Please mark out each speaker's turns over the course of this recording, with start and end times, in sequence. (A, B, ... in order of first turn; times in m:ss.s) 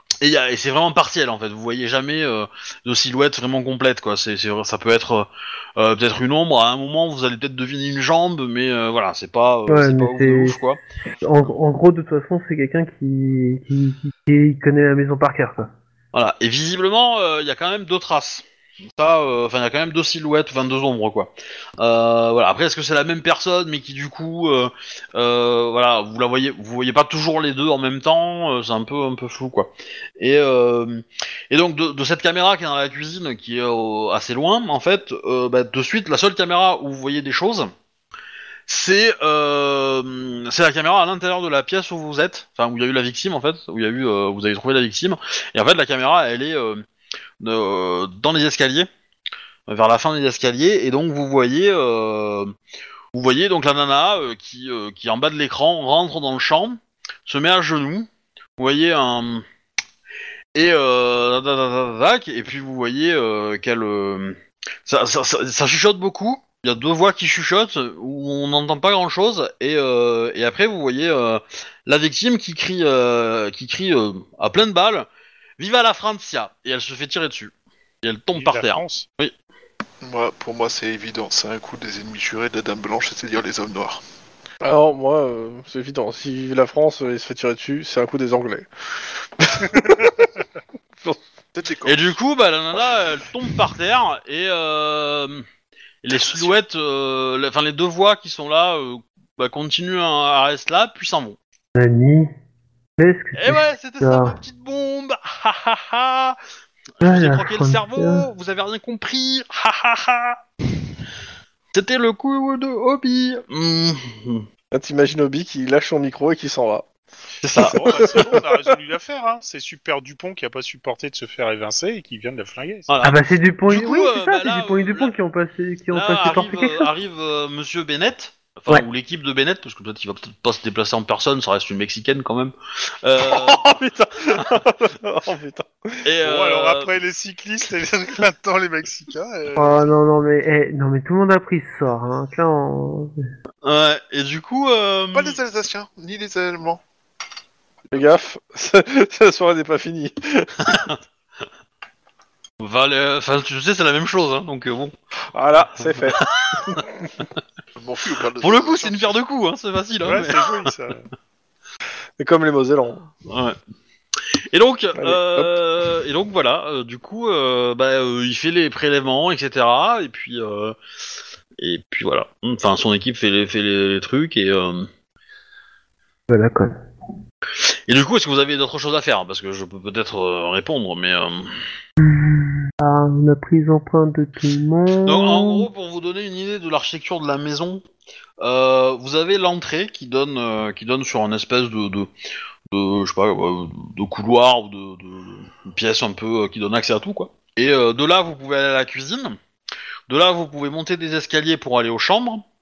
0:00.2-0:10.8 A
0:09.7-0:10.6 B
0:11.2-0:15.7 B
0:16.1-0:18.4 A
0:19.0-0:37.7 A
0:38.7-0:46.8 A
0:47.4-0:48.9 A
0:49.7-0:52.5 A
0:53.1-0:59.4 A
1:00.6-1:15.1 A
1:15.6-1:17.5 A
1:18.0-1:19.3 A
1:18.4-1:19.1 C
1:20.0-1:24.0 D
1:24.6-1:30.3 E
1:31.5-1:32.1 D
1:31.8-1:35.5 A
1:36.0-1:41.4 A
1:36.2-1:36.5 D
1:41.8-1:42.3 B
1:43.0-1:44.4 B
1:43.4-1:46.4 A
1:47.0-1:50.4 A
1:47.0-1:48.3 B
1:51.7-1:54.5 A
1:54.7-1:56.9 E
1:57.4-1:58.3 A
1:57.6-1:58.4 E
1:57.6-2:02.9 C
2:02.9-2:05.1 A
2:03.0-2:06.9 B
2:05.9-2:13.6 A
2:13.2-2:16.0 E
2:16.0-2:16.9 A
2:16.2-2:19.9 C
2:19.6-2:23.1 B
2:23.6-2:25.4 A
2:25.1-2:26.8 D
2:27.9-2:30.8 E
2:30.6-2:31.0 A
2:32.6-2:34.9 A
2:35.3-2:36.9 E
2:36.0-2:36.8 A
2:37.8-2:39.2 D
2:38.4-2:40.7 A
2:40.0-2:41.1 C
2:42.2-2:43.0 E
2:43.2-2:43.6 A
2:44.5-2:50.8 A
2:45.0-2:45.6 E
2:51.6-2:54.9 A
2:56.3-2:56.8 B
2:57.9-3:01.6 A
3:02.0-3:05.7 B
3:05.0-3:07.8 A
3:08.4-3:12.1 A
3:12.7-3:19.4 A
3:20.1-3:22.4 A